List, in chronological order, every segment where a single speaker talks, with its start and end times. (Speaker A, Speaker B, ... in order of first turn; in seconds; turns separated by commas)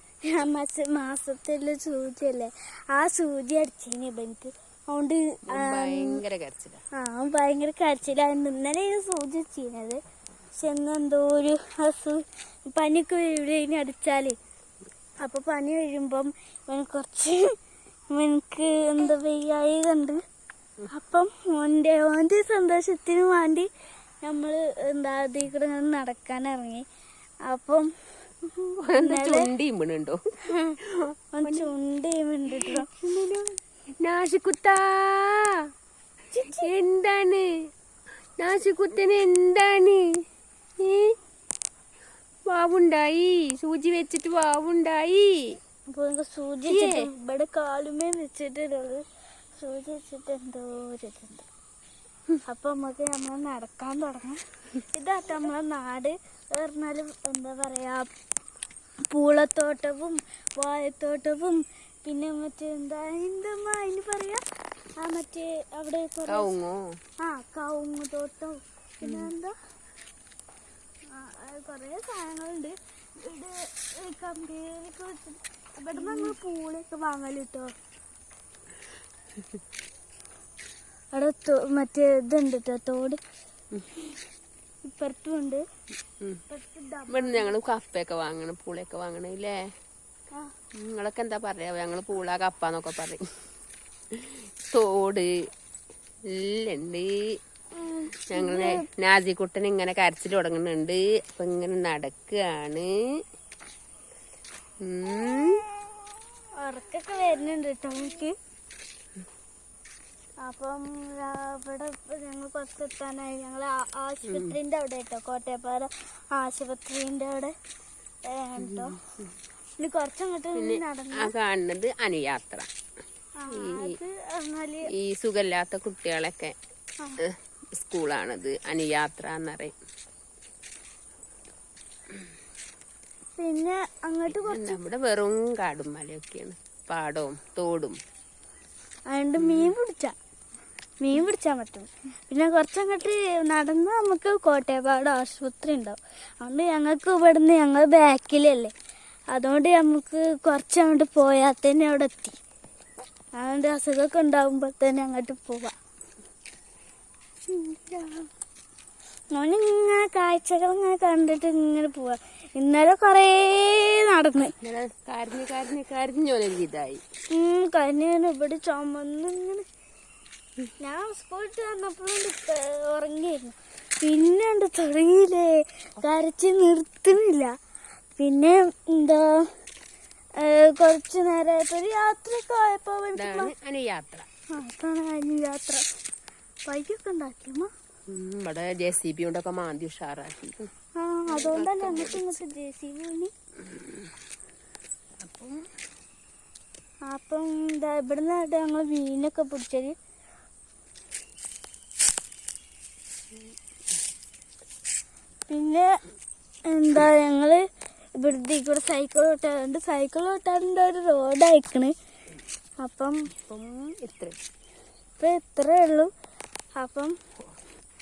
Speaker A: 0.2-6.2, Speaker B: 5.5-6.8, Speaker A: 6.9-10.0, Speaker A: 10.6-14.3, Speaker A: 15.2-17.5, Speaker A: 18.1-20.2, Speaker A: 20.9-23.7, Speaker A: 24.2-26.8, Speaker A: 27.5-27.9, Speaker A: 28.7-29.5, Speaker B: 28.9-31.7, Speaker A: 31.4-32.9, Speaker B: 32.5-35.5, Speaker A: 36.3-36.7, Speaker B: 36.5-37.5, Speaker B: 38.4-40.0, Speaker B: 40.8-41.1, Speaker B: 42.5-45.6, Speaker A: 45.9-49.0, Speaker B: 46.7-47.0, Speaker A: 49.6-51.5, Speaker A: 52.5-58.1, Speaker A: 59.1-64.4, Speaker A: 65.0-66.5, Speaker B: 66.3-66.8, Speaker A: 67.2-69.5, Speaker B: 69.0-69.3, Speaker A: 71.1-77.7, Speaker B: 76.0-76.3, Speaker A: 81.1-83.2, Speaker A: 84.8-85.6, Speaker A: 86.5-87.5, Speaker B: 87.1-89.6, Speaker B: 90.8-93.2, Speaker B: 94.1-95.3, Speaker B: 96.3-97.1, Speaker A: 97.7-98.9, Speaker B: 98.3-102.9, Speaker B: 104.8-105.6, Speaker A: 106.6-108.3, Speaker A: 110.4-117.5, Speaker B: 114.3-114.6, Speaker A: 118.3-119.0, Speaker B: 118.6-119.1, Speaker A: 119.8-121.3, Speaker B: 120.5-122.7, Speaker A: 123.4-124.9, Speaker B: 123.5-124.0, Speaker B: 124.9-126.5, Speaker B: 127.2-129.7, Speaker A: 133.4-134.8, Speaker B: 134.3-138.0, Speaker A: 139.1-140.1, Speaker B: 139.4-139.7, Speaker A: 141.0-148.7, Speaker A: 149.3-152.4, Speaker A: 153.3-155.7, Speaker B: 157.7-158.1, Speaker A: 159.3-164.5, Speaker B: 164.6-167.0, Speaker A: 167.3-169.7, Speaker A: 170.8-177.5, Speaker A: 178.2-179.5, Speaker A: 180.4-183.5, Speaker B: 183.2-184.3, Speaker A: 184.5-185.8, Speaker A: 186.7-187.7, Speaker B: 188.1-190.7, Speaker A: 191.0-193.3, Speaker B: 191.3-192.4, Speaker B: 195.2-195.6, Speaker A: 197.1-199.9, Speaker A: 205.5-205.9, Speaker A: 206.7-207.6, Speaker A: 208.2-211.9, Speaker A: 212.8-213.3, Speaker B: 213.4-214.4, Speaker A: 215.2-216.1, Speaker A: 216.8-217.1